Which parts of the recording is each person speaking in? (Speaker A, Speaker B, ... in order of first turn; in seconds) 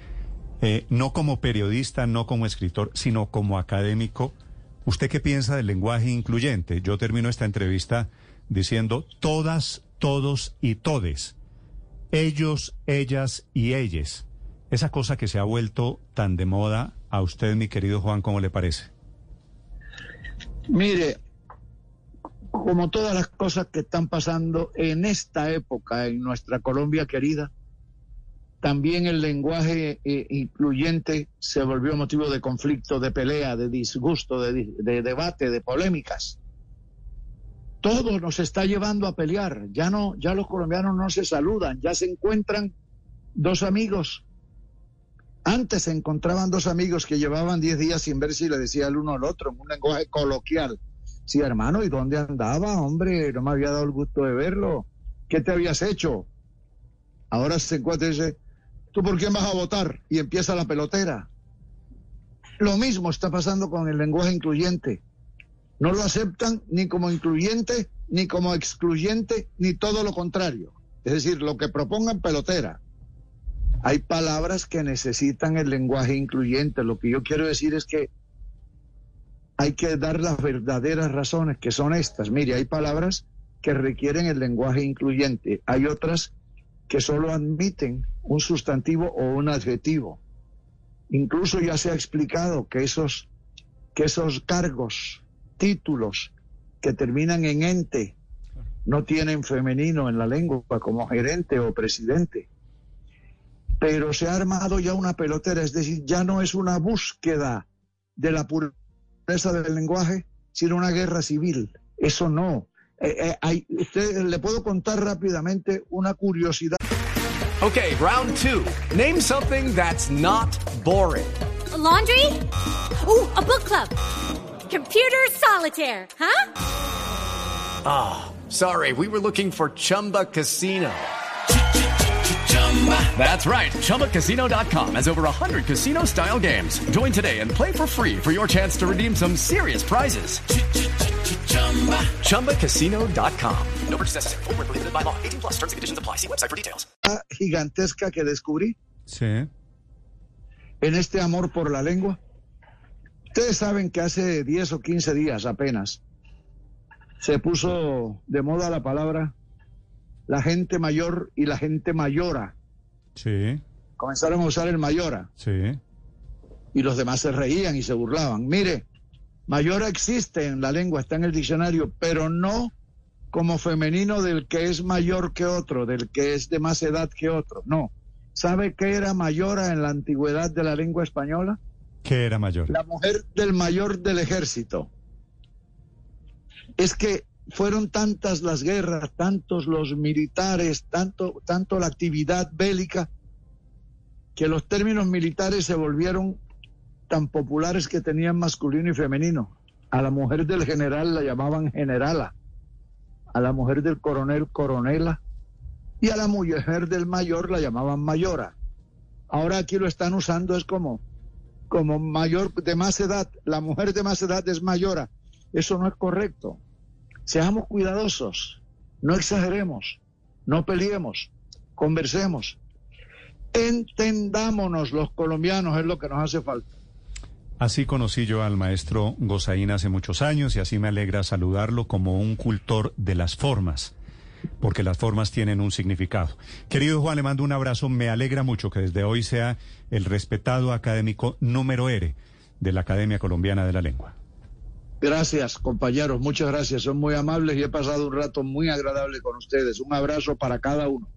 Speaker A: 0.6-11.3, 12.1-18.9, 149.1-149.5, 163.2-163.6, 165.4-165.8, 182.0-182.7, 227.6-233.9, 234.6-244.1
Speaker B: 20.7-21.2, 22.5-27.5, 28.6-36.4, 37.8-42.7, 43.4-44.2, 45.4-56.3, 57.3-58.4, 58.9-61.3, 62.6-65.0, 65.8-72.8, 73.8-78.1, 79.6-86.3, 86.9-90.2, 91.1-93.3, 94.0-96.3, 96.8-98.2, 98.8-102.5, 103.8-107.6, 108.2-108.7, 109.3-116.8, 147.0-148.8, 150.8-152.2, 153.3-156.0, 157.2-159.3, 160.3-162.5, 164.0-165.3, 166.7-168.8, 169.5-172.7, 173.3-181.6, 182.7-184.9, 186.8-193.1, 194.3-196.4, 197.1-202.3, 203.3-205.2, 206.0-208.5, 209.3-211.0, 211.7-216.6, 217.2-222.6, 223.5-226.6, 245.0-251.1
Speaker C: 117.6-121.4, 127.8-131.1, 132.5-140.4, 141.3-143.8
Speaker D: 121.7-122.4, 123.0-124.0, 124.7-126.5
Speaker E: 143.9-146.7